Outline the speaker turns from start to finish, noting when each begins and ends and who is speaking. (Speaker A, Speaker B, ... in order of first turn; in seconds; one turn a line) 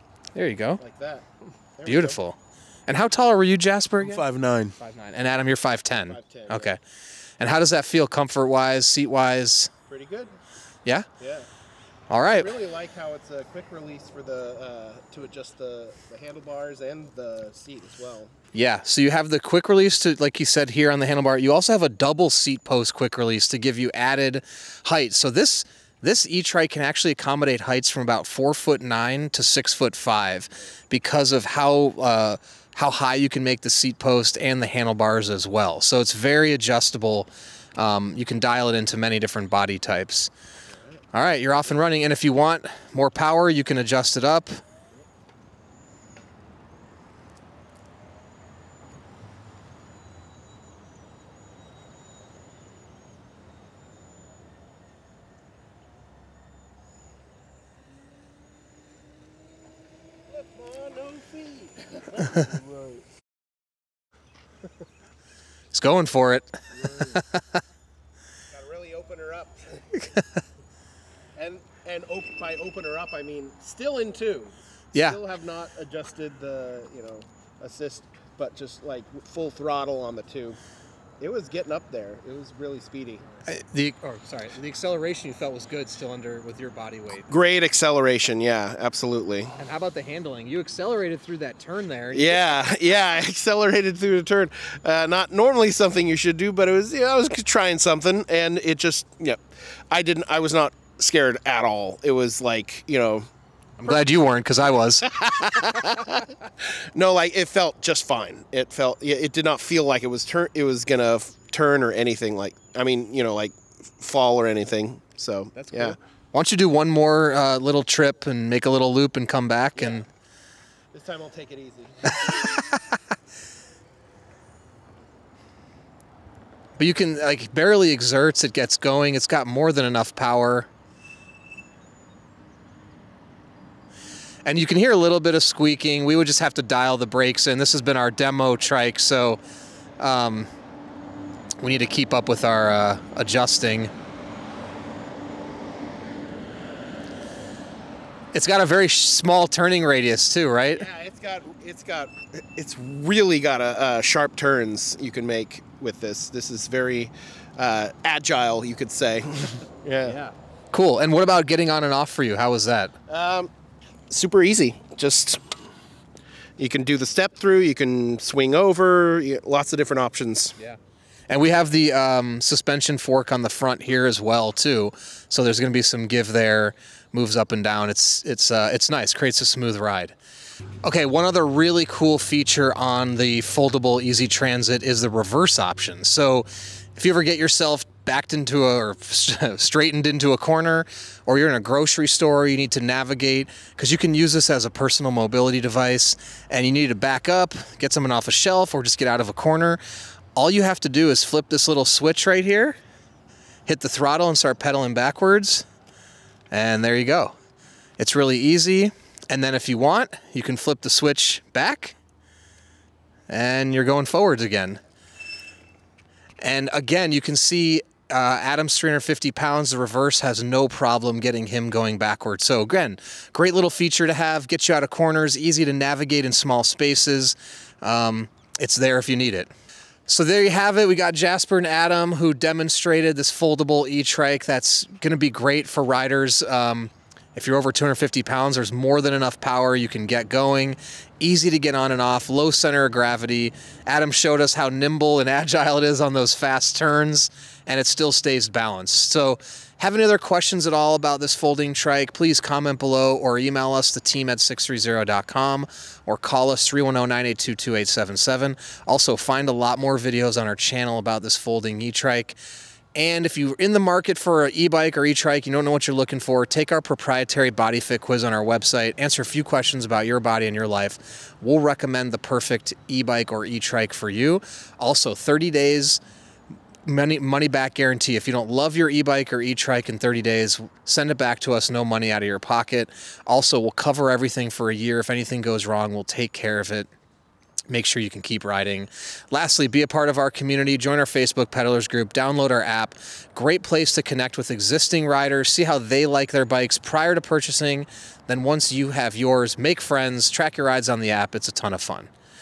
Speaker A: 0.3-0.8
Speaker B: 0.8-2.2
Speaker A: 1.9-4.2
Speaker C: 4.0-4.8
Speaker A: 4.8-6.8
Speaker B: 6.1-6.8
Speaker A: 7.4-9.7
Speaker B: 9.9-10.4
Speaker B: 11.2-11.5
Speaker A: 12.1-12.5
Speaker B: 12.3-18.3
Speaker A: 18.5-40.3
Speaker A: 41.1-44.6
Speaker B: 60.3-62.2
Speaker C: 62.1-63.0
Speaker A: 65.7-67.4
Speaker C: 66.8-67.2
Speaker B: 68.5-70.1
Speaker B: 71.3-80.6
Speaker A: 74.9-75.2
Speaker B: 81.2-83.5
Speaker A: 83.5-87.3
Speaker B: 87.3-89.6
Speaker A: 89.6-92.6
Speaker B: 92.1-103.3
Speaker A: 103.8-105.1
Speaker B: 105.0-116.0
Speaker A: 115.7-120.1
Speaker B: 119.8-120.0
Speaker B: 120.9-122.7
Speaker A: 122.3-123.0
Speaker A: 126.8-130.7
Speaker A: 134.4-139.4
Speaker A: 140.0-140.5
Speaker A: 141.6-143.9
Speaker A: 148.3-150.8
Speaker B: 150.7-160.2
Speaker A: 160.7-162.9
Speaker B: 163.1-163.5
Speaker B: 164.1-165.5
Speaker B: 166.6-170.6
Speaker A: 170.6-180.2
Speaker A: 180.8-199.8
Speaker A: 200.4-202.8
Speaker A: 203.7-205.7
Speaker A: 206.5-207.3
Speaker A: 208.0-212.0
Speaker A: 213.3-214.8
Speaker A: 216.4-229.5
Speaker A: 230.1-262.4
Speaker A: 262.9-276.0
Speaker A: 276.9-286.9
Speaker A: 287.7-302.1